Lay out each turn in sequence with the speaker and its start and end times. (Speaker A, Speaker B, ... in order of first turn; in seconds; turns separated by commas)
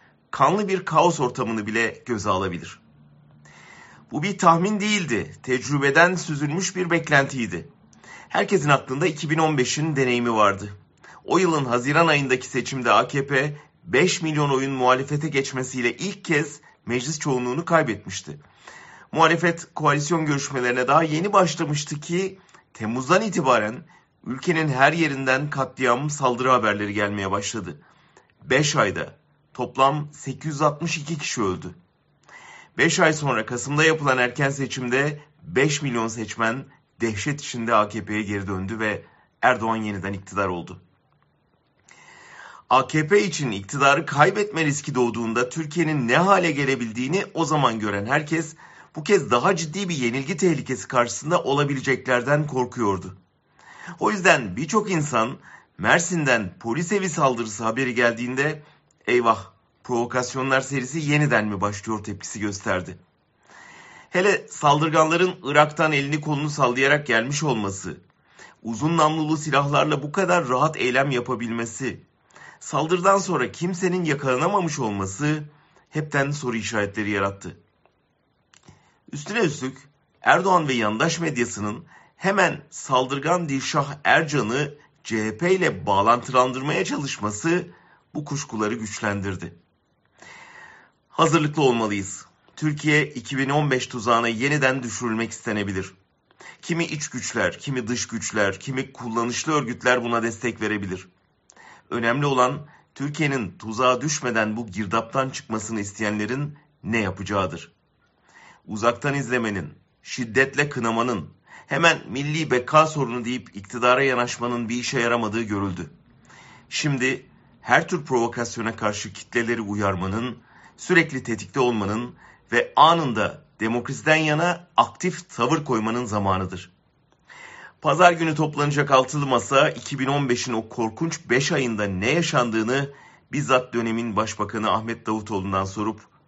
Speaker A: 0.3-2.8, Speaker A: 4.1-7.7, Speaker A: 8.3-10.7, Speaker A: 11.2-18.4, Speaker A: 19.1-27.8, Speaker A: 28.4-31.8, Speaker A: 32.8-40.8, Speaker A: 42.7-53.2, Speaker A: 54.0-63.0, Speaker A: 64.1-68.0, Speaker A: 68.6-72.0, Speaker A: 72.6-77.6, Speaker A: 79.1-89.6, Speaker A: 91.1-96.0, Speaker A: 96.6-101.1, Speaker A: 101.9-107.7, Speaker A: 108.7-115.9, Speaker A: 116.7-126.7, Speaker A: 127.8-136.1